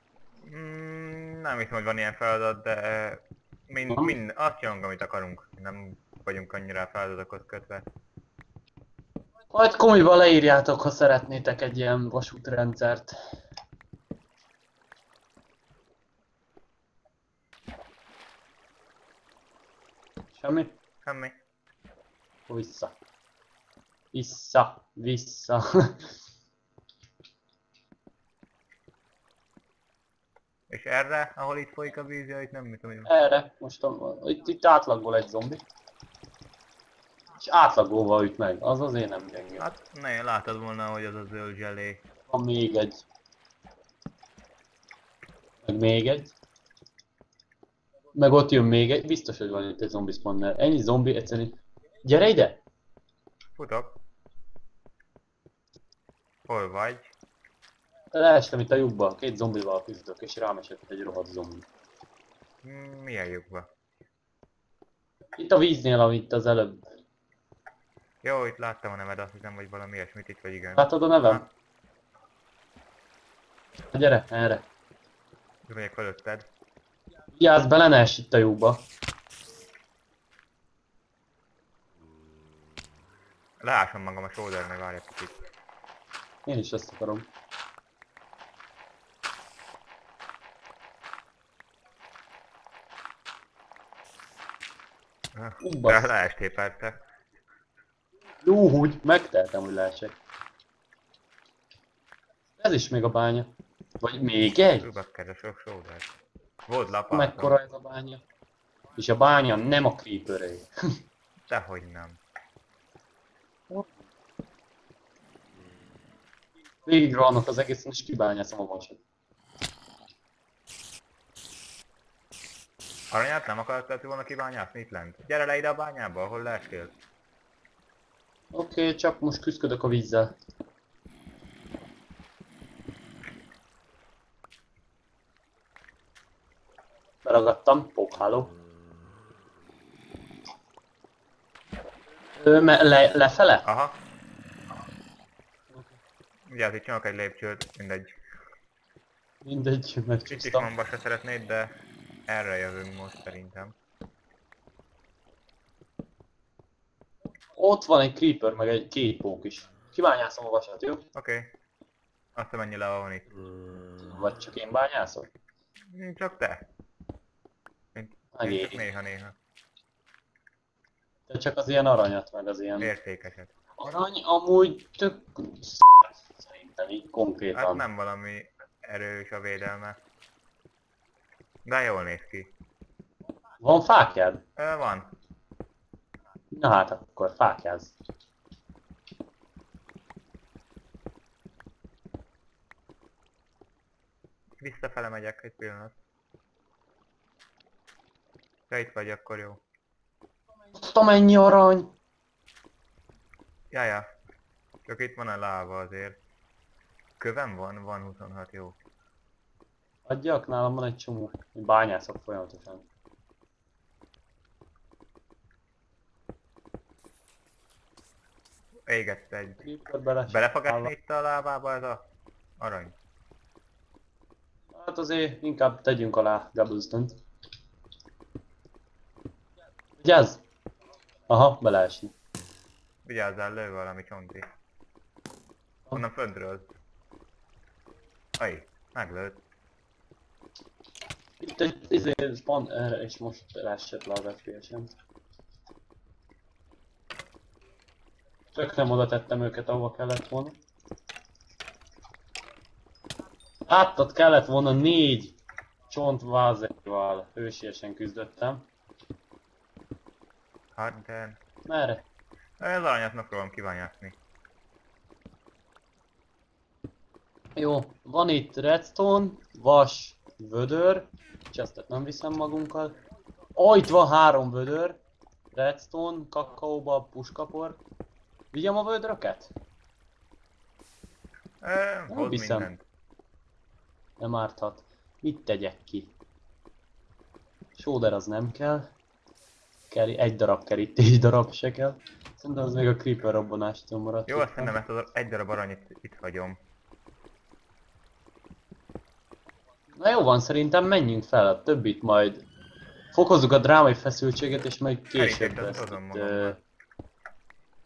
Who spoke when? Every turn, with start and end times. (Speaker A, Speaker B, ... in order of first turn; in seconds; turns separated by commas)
Speaker A: 0.5-7.8, Speaker B: 3.9-4.2, Speaker B: 9.5-13.2, Speaker B: 20.4-20.7, Speaker A: 21.1-21.4, Speaker B: 22.5-23.0, Speaker B: 24.1-26.0, Speaker A: 30.7-33.1, Speaker B: 33.1-35.6, Speaker B: 37.4-39.7, Speaker A: 39.6-42.0, Speaker B: 42.3-43.0, Speaker B: 45.6-46.3, Speaker B: 48.1-52.6, Speaker A: 53.6-54.0, Speaker A: 56.5-57.1, Speaker B: 58.1-61.7, Speaker A: 62.6-63.7, Speaker B: 65.4-66.9, Speaker A: 68.2-71.5, Speaker B: 70.8-71.5, Speaker B: 73.9-74.6, Speaker A: 75.7-76.5, Speaker B: 77.3-78.9, Speaker A: 83.6-85.4, Speaker B: 86.5-87.3, Speaker A: 95.3-97.0, Speaker B: 95.6-96.1, Speaker B: 98.4-100.2, Speaker B: 102.6-104.9, Speaker A: 104.8-106.1, Speaker A: 106.7-107.6, Speaker B: 107.1-108.2, Speaker B: 109.0-110.7, Speaker A: 111.5-112.2, Speaker B: 116.9-119.0, Speaker A: 123.1-126.9, Speaker B: 128.5-130.3, Speaker B: 137.2-138.5, Speaker B: 142.4-143.7, Speaker A: 143.7-144.0, Speaker A: 146.5-148.2, Speaker B: 149.4-150.7, Speaker A: 150.3-151.7, Speaker A: 152.3-153.7, Speaker B: 157.6-161.1, Speaker A: 161.2-161.5, Speaker A: 162.4-163.3, Speaker B: 164.0-165.3, Speaker A: 165.9-166.7, Speaker A: 167.9-169.3, Speaker B: 168.3-168.8, Speaker B: 171.3-172.9, Speaker A: 172.8-173.5, Speaker B: 173.8-177.8, Speaker A: 177.5-180.0, Speaker A: 181.7-182.5, Speaker B: 183.6-184.4, Speaker A: 184.6-185.1, Speaker B: 186.5-187.9, Speaker A: 194.6-195.9, Speaker A: 198.7-199.6, Speaker B: 200.8-201.9, Speaker A: 203.7-204.1, Speaker A: 204.9-206.2, Speaker A: 207.2-208.8, Speaker B: 210.1-212.8, Speaker A: 218.9-219.6, Speaker B: 219.6-220.9, Speaker A: 220.3-222.0, Speaker A: 222.6-222.9, Speaker B: 224.8-227.2, Speaker B: 230.0-230.4, Speaker B: 231.3-232.1, Speaker A: 233.1-234.5, Speaker A: 235.9-236.7, Speaker A: 238.4-239.4, Speaker B: 241.4-244.9, Speaker B: 248.5-250.6, Speaker B: 253.7-255.4, Speaker B: 255.9-258.7, Speaker A: 260.8-261.4, Speaker B: 261.7-262.0, Speaker A: 262.6-264.2, Speaker B: 267.6-272.9, Speaker B: 273.6-275.0, Speaker B: 275.5-277.8, Speaker B: 278.5-279.5, Speaker A: 281.6-282.8, Speaker B: 282.1-282.7, Speaker B: 284.2-286.1, Speaker B: 287.8-288.9, Speaker B: 289.9-294.8, Speaker A: 294.3-296.6, Speaker B: 300.0-302.4, Speaker B: 303.1-306.6, Speaker A: 305.1-306.6